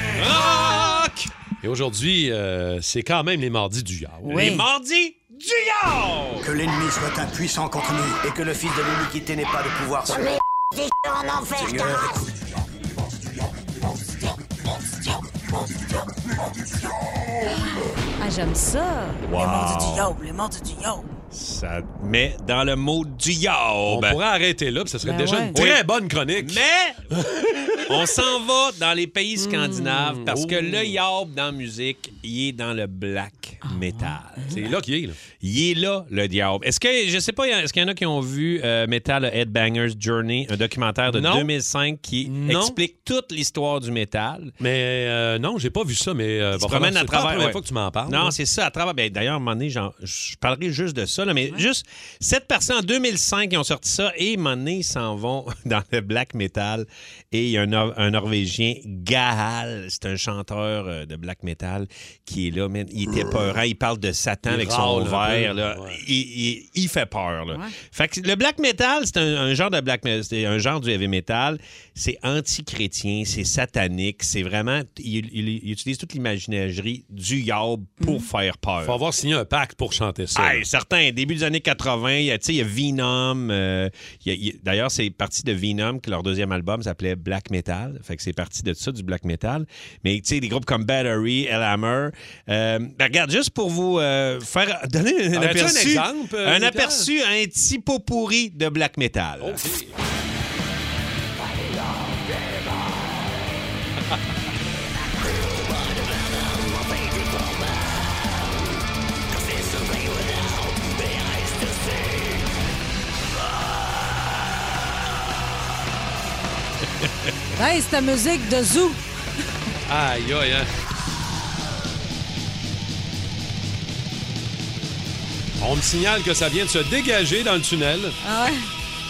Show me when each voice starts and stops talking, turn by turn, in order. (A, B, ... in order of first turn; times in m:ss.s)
0:00.1-0:04.6 A
0:00.2-0:01.2 B
0:04.2-0:04.6 C
0:04.3-0:06.5 B
0:06.4-0:10.3 D
0:11.5-0:12.2 D
0:18.2-0:21.1 C
0:19.2-0:20.1 B
0:21.3-0:24.2 B
0:23.9-0:26.6 A
0:25.0-0:25.6 C
0:25.5-0:25.8 B
0:26.4-0:27.1 B
0:27.1-0:27.9 A
0:27.8-0:34.7 B
0:29.4-0:31.0 A
0:33.6-0:34.6 C
0:34.5-0:35.2 A
0:35.4-0:44.5 B
0:41.1-0:41.5 A
0:42.2-0:42.8 A
0:44.6-0:48.4 A
0:46.5-1:19.0 B
1:04.4-1:06.0 A
1:18.0-1:18.2 C
1:18.8-1:20.6 A
1:20.3-1:39.7 B
1:35.3-1:37.1 A
1:39.4-1:39.9 A
1:57.6-1:59.0 C
1:59.9-2:00.7 A
2:05.6-2:08.2 A
2:08.2-2:08.7 C